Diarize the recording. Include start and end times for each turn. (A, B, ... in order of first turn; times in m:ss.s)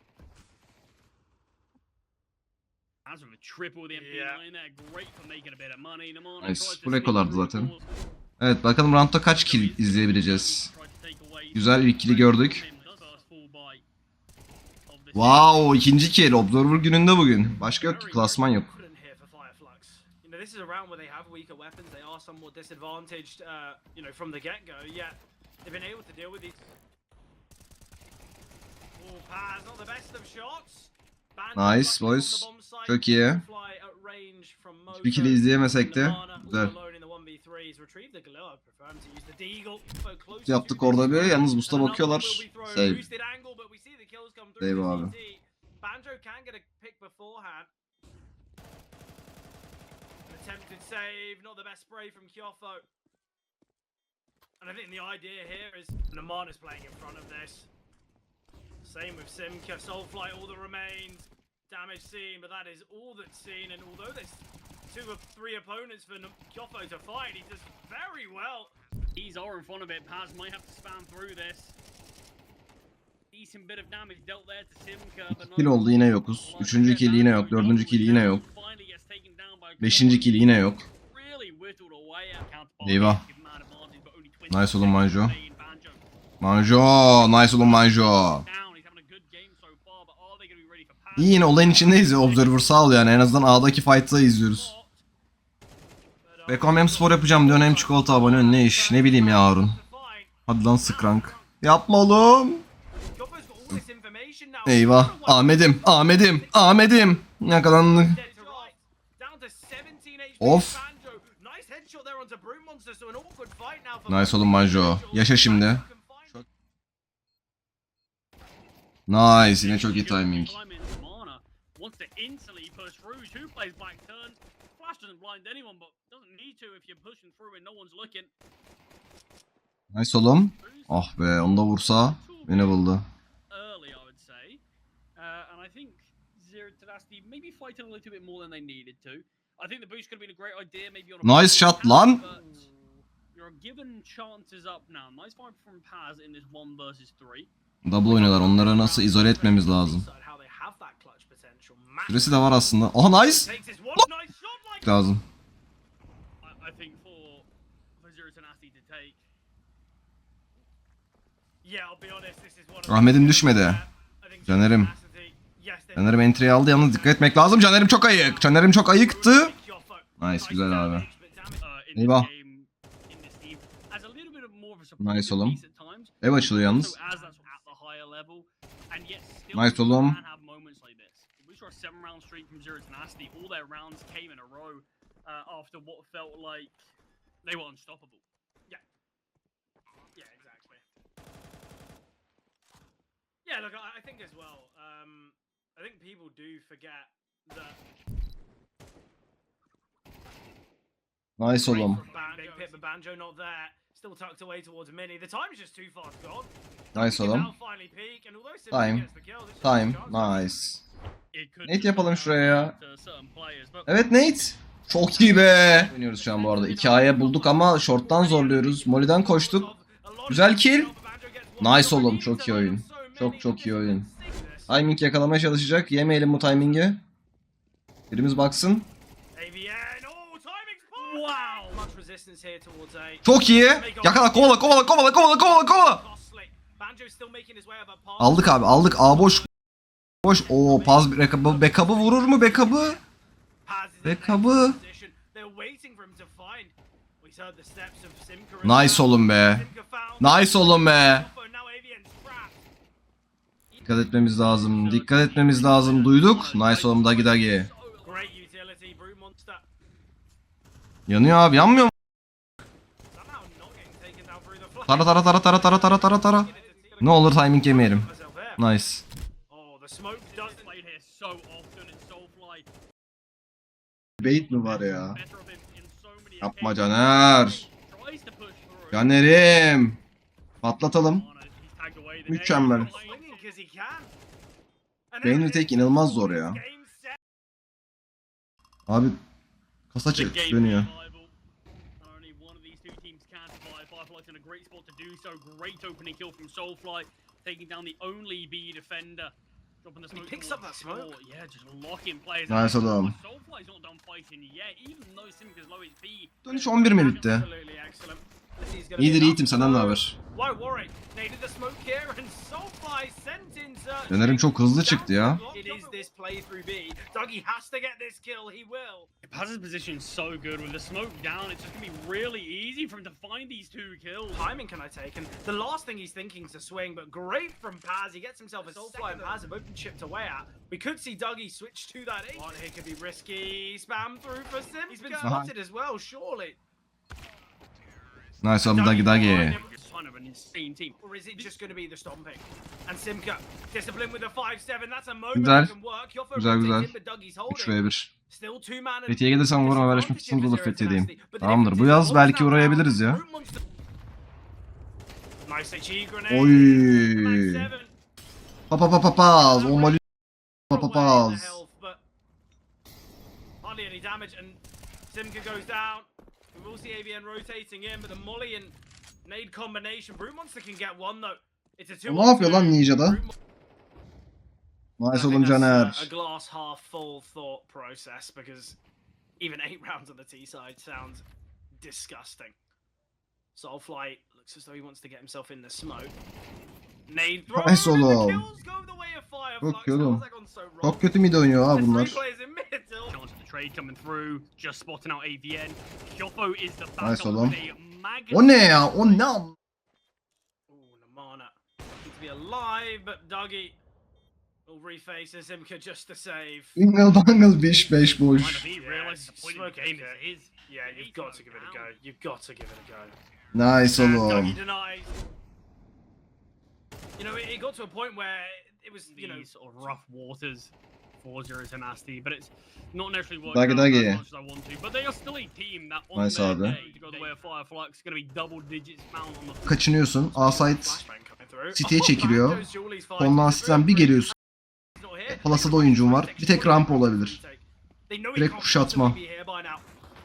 0:03.0-0:08.0 A
0:03.9-0:04.4 B
0:06.4-0:07.7 C
0:08.4-0:10.7 C
0:09.3-0:13.8 A
0:11.5-0:12.6 C
0:12.5-0:13.2 B
0:14.9-0:15.8 A
0:15.2-0:18.7 C
0:17.8-0:26.7 B
0:29.0-0:47.7 B
0:31.6-0:33.4 C
0:34.9-0:36.7 C
0:40.5-0:43.0 C
0:44.6-0:45.1 C
0:50.3-0:52.9 B
0:54.6-0:57.7 B
0:58.8-1:08.7 B
1:09.2-1:11.8 A
1:13.3-1:26.0 A
1:15.3-1:18.4 C
1:19.8-1:20.9 C
1:22.8-1:23.2 C
1:24.5-1:25.3 C
1:26.4-1:28.4 C
1:28.4-1:32.6 A
1:31.2-1:34.7 C
1:34.4-1:35.0 A
1:36.2-1:41.5 B
1:36.5-1:39.8 C
1:40.5-1:42.6 C
1:43.2-1:56.4 B
1:44.7-1:48.2 C
1:48.1-1:48.7 A
1:50.4-1:50.8 C
1:54.1-1:55.8 C
1:59.1-2:00.6 C
1:59.4-2:08.3 A
2:09.9-2:13.0 C
2:10.6-2:12.8 A
2:13.5-2:14.6 A
2:15.2-2:22.7 A
2:21.2-2:22.2 C
2:22.0-2:22.9 B
2:23.3-2:27.5 A
2:27.8-2:30.0 C
2:28.0-2:32.4 B
2:32.1-2:34.1 C
2:33.3-2:35.0 B
2:34.8-2:35.2 C
2:36.4-2:39.2 A
2:41.6-2:51.6 B
2:42.9-2:43.8 C
2:44.4-2:44.9 C
2:46.0-2:49.5 C
2:50.2-2:51.1 C
2:51.6-3:06.8 A
2:52.0-2:52.3 C
2:55.0-2:55.6 C
2:56.2-2:57.0 C
2:57.1-2:57.7 B
2:59.5-3:00.2 C
3:07.4-3:08.2 A
3:10.2-3:10.8 B
3:13.4-3:17.8 B
3:21.4-3:22.0 C
3:21.6-3:30.8 B
3:21.6-3:22.8 A
3:26.9-3:27.5 C
3:28.7-3:29.1 C
3:29.6-3:30.8 C
3:31.3-3:33.9 A
3:31.6-3:32.8 C
3:33.9-3:39.7 C
3:35.1-3:44.8 B
3:40.3-3:40.9 C
3:41.6-3:44.1 C
3:44.7-3:47.0 C
3:46.1-3:46.9 B
3:48.1-3:48.9 C
3:49.3-3:58.6 B
3:51.0-3:51.9 A
3:53.2-3:56.0 C
3:58.2-3:59.5 C
3:59.2-3:59.5 B
4:00.2-4:03.0 C
4:00.3-4:03.0 B
4:03.6-4:12.7 B
4:04.0-4:04.8 C
4:08.6-4:09.7 C
4:10.2-4:11.3 C
4:13.7-4:14.5 B
4:13.8-4:17.7 C
4:14.4-4:18.4 A
4:18.0-4:19.7 B
4:21.1-4:21.9 C
4:23.1-4:28.6 B
4:24.9-4:26.5 C
4:26.3-4:27.0 A
4:27.0-4:28.1 C
4:28.6-4:29.0 C
4:29.5-4:30.7 B
4:30.2-4:32.7 A
4:34.2-4:35.2 C
4:34.2-4:39.2 A
4:36.4-4:37.7 C
4:38.9-4:40.0 C
4:40.6-4:41.2 C
4:40.9-4:43.5 A
4:42.3-4:42.9 C
4:42.6-4:44.1 B
4:45.1-4:47.2 B
4:45.2-4:46.6 C
4:48.9-4:49.2 C
4:49.9-4:50.9 C
4:50.1-4:51.3 A
4:52.0-5:07.2 A
5:00.1-5:01.2 B
5:02.5-5:03.2 C
5:06.4-5:07.5 C
5:06.5-5:19.1 B
5:09.0-5:10.2 C
5:14.1-5:15.4 C
5:15.5-5:16.0 A
5:19.2-5:24.4 A
5:24.3-5:36.6 B
5:28.6-5:29.2 A
5:35.2-5:35.5 C
5:38.4-5:39.6 C
5:38.6-5:39.7 B
5:39.1-5:41.6 A
5:41.0-5:53.6 B
5:45.4-5:45.8 C
5:46.3-5:46.9 C
5:47.5-5:48.1 C
5:49.1-5:53.2 C
5:55.4-5:57.9 B
5:56.3-5:57.7 C
5:58.7-6:00.0 C
5:59.4-6:00.0 B
6:00.7-6:02.0 B
6:00.7-6:01.6 C
6:03.6-6:13.3 B
6:12.1-6:13.2 C
6:15.0-6:16.1 C
6:15.1-6:18.8 B
6:19.4-6:21.2 B
6:21.8-6:22.6 B
6:23.6-6:26.2 B
6:27.1-6:31.1 B
6:27.5-6:28.4 C
6:29.6-6:30.2 C
6:30.8-6:32.2 C
6:31.7-6:33.2 B
6:33.1-6:38.9 A
6:37.0-6:37.6 C
6:38.3-6:39.5 C
6:40.7-6:43.8 B
6:44.7-6:46.8 B
6:46.8-6:48.7 C
6:48.3-6:52.0 A
6:48.7-6:53.2 B
6:53.5-6:54.6 C
6:53.9-6:55.2 B
6:57.2-7:00.0 B
6:59.1-7:09.7 A
7:03.5-7:04.2 C
7:06.2-7:06.8 C
7:06.5-7:07.4 B
7:09.6-7:11.0 C
7:10.3-7:14.3 B
7:11.7-7:12.7 C
7:13.2-7:14.3 C
7:15.0-7:19.8 B
7:15.3-7:17.4 C
7:18.4-7:19.2 C